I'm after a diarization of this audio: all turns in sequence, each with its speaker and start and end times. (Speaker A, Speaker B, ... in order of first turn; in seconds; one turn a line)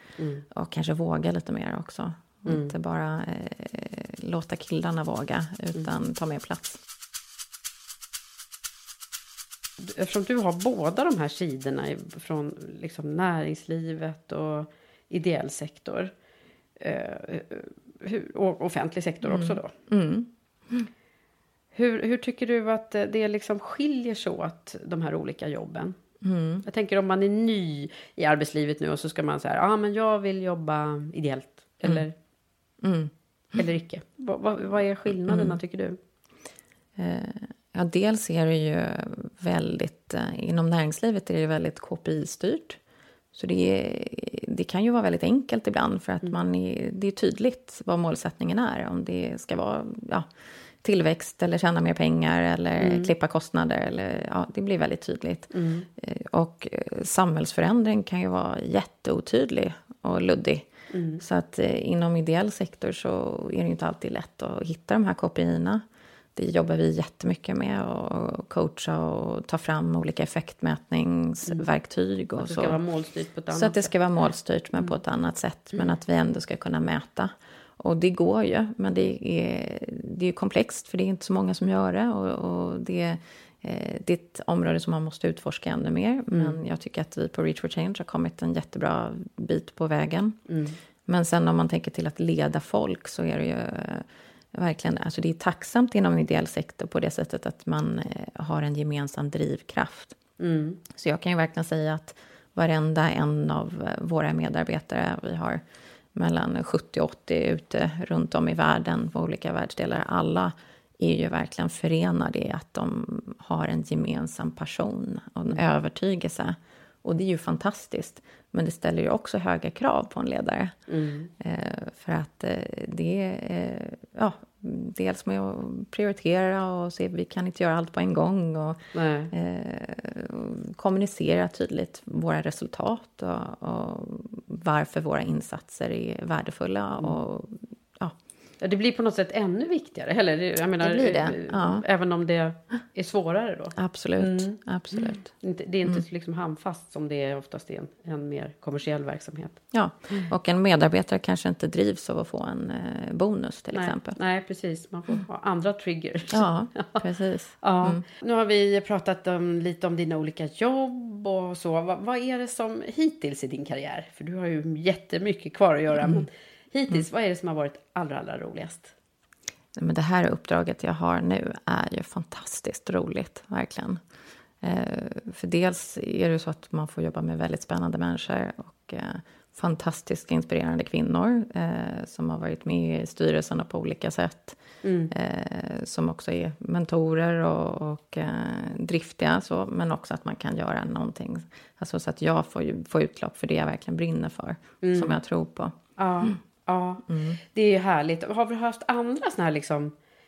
Speaker A: 0.2-0.5
Speaker B: 0.5-6.8
Speaker A: 2.5-2.7
Speaker A: 9.8-16.1
Speaker A: 16.8-19.7
Speaker B: 19.2-20.9
Speaker A: 21.7-25.9
Speaker B: 26.2-26.6
Speaker A: 26.7-32.1
Speaker B: 32.8-33.6
Speaker A: 33.6-36.0
Speaker B: 35.3-35.6
Speaker B: 37.0-42.8
Speaker B: 43.3-50.3
Speaker B: 50.8-60.7
Speaker A: 52.8-53.1
Speaker A: 55.5-55.9
Speaker A: 60.9-61.2
Speaker B: 61.2-65.8
Speaker B: 66.3-72.8
Speaker A: 72.4-73.9
Speaker B: 73.5-90.4
Speaker A: 86.3-86.6
Speaker A: 90.5-90.8
Speaker B: 91.1-100.2
Speaker A: 100.4-100.8
Speaker B: 100.9-105.6
Speaker B: 106.2-120.7
Speaker A: 120.9-121.3
Speaker B: 121.4-128.8
Speaker A: 128.9-129.3
Speaker B: 129.3-138.2
Speaker A: 138.6-150.3
Speaker B: 140.8-141.8
Speaker B: 143.8-145.3
Speaker B: 149.7-154.2
Speaker A: 153.7-157.0
Speaker B: 156.3-158.0
Speaker A: 157.6-168.9
Speaker B: 166.0-166.3
Speaker B: 169.8-174.0
Speaker B: 174.6-184.6
Speaker A: 184.8-185.1
Speaker B: 185.1-196.4
Speaker A: 194.8-195.2
Speaker A: 196.0-199.9
Speaker B: 197.1-197.4